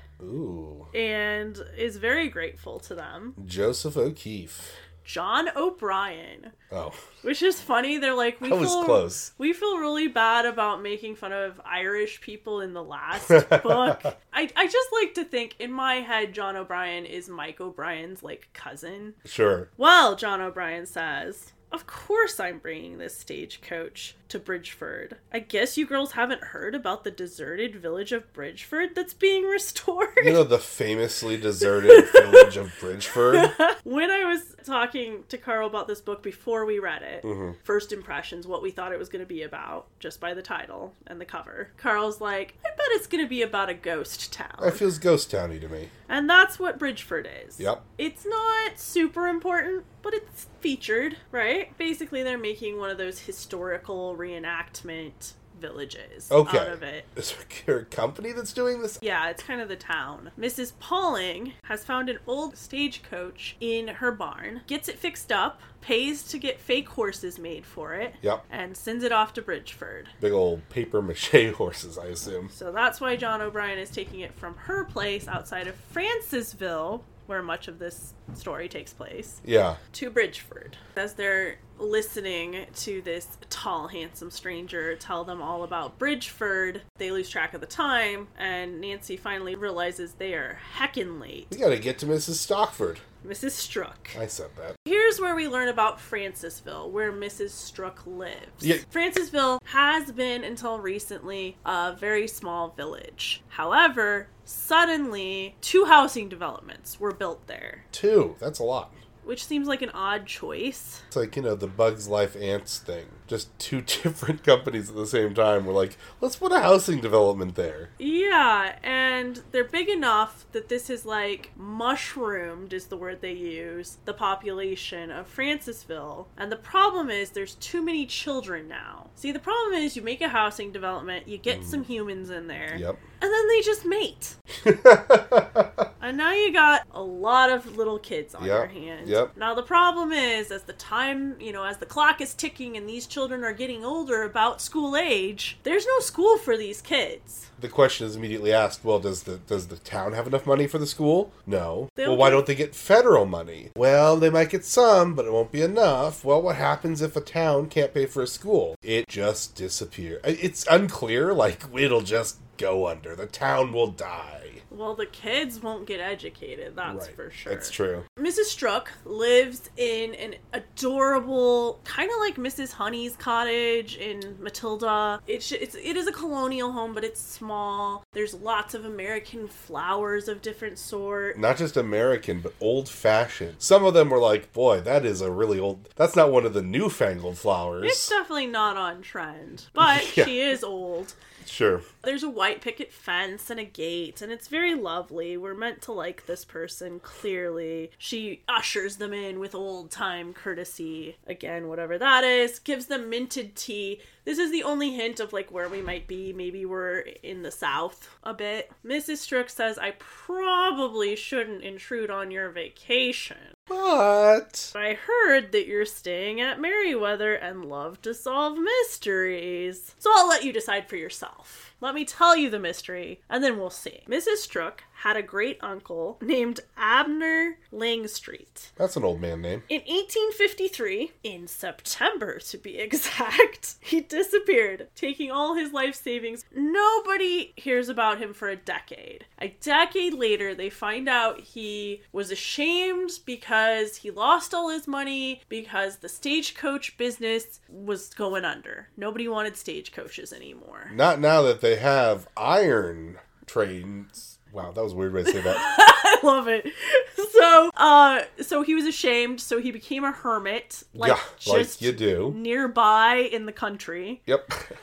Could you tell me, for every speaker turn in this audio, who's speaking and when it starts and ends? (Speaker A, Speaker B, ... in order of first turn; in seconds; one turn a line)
Speaker A: 0.2-0.9
Speaker B: 0.9-3.4
Speaker A: 3.4-4.8
Speaker B: 5.0-6.5
Speaker A: 6.7-7.0
Speaker B: 7.2-19.2
Speaker A: 8.4-9.3
Speaker A: 13.3-14.1
Speaker A: 19.2-19.7
Speaker B: 19.8-30.4
Speaker A: 30.2-33.5
Speaker B: 31.6-32.5
Speaker B: 33.3-44.8
Speaker A: 37.2-37.6
Speaker A: 44.6-45.9
Speaker B: 46.1-57.1
Speaker A: 56.3-59.0
Speaker B: 59.0-70.1
Speaker A: 70.2-72.5
Speaker B: 72.5-79.4
Speaker A: 79.4-79.8
Speaker B: 79.9-91.5
Speaker A: 91.5-93.0
Speaker B: 93.2-94.2
Speaker A: 94.2-94.8
Speaker B: 94.8-107.8
Speaker A: 107.9-109.0
Speaker B: 109.2-111.0
Speaker A: 111.1-117.9
Speaker B: 118.0-134.4
Speaker A: 131.5-131.8
Speaker A: 132.7-133.0
Speaker A: 134.6-135.9
Speaker B: 136.0-147.5
Speaker A: 138.4-139.3
Speaker A: 147.6-164.6
Speaker B: 152.0-152.4
Speaker B: 164.7-181.4
Speaker A: 166.9-168.1
Speaker A: 181.3-188.1
Speaker B: 187.8-191.2
Speaker A: 189.8-190.3
Speaker A: 191.4-191.8
Speaker B: 192.0-213.5
Speaker A: 213.7-214.7
Speaker B: 214.8-228.7
Speaker A: 228.8-229.7
Speaker B: 229.7-250.9
Speaker A: 250.9-255.7
Speaker B: 255.3-264.2
Speaker A: 261.0-262.4
Speaker A: 264.3-264.8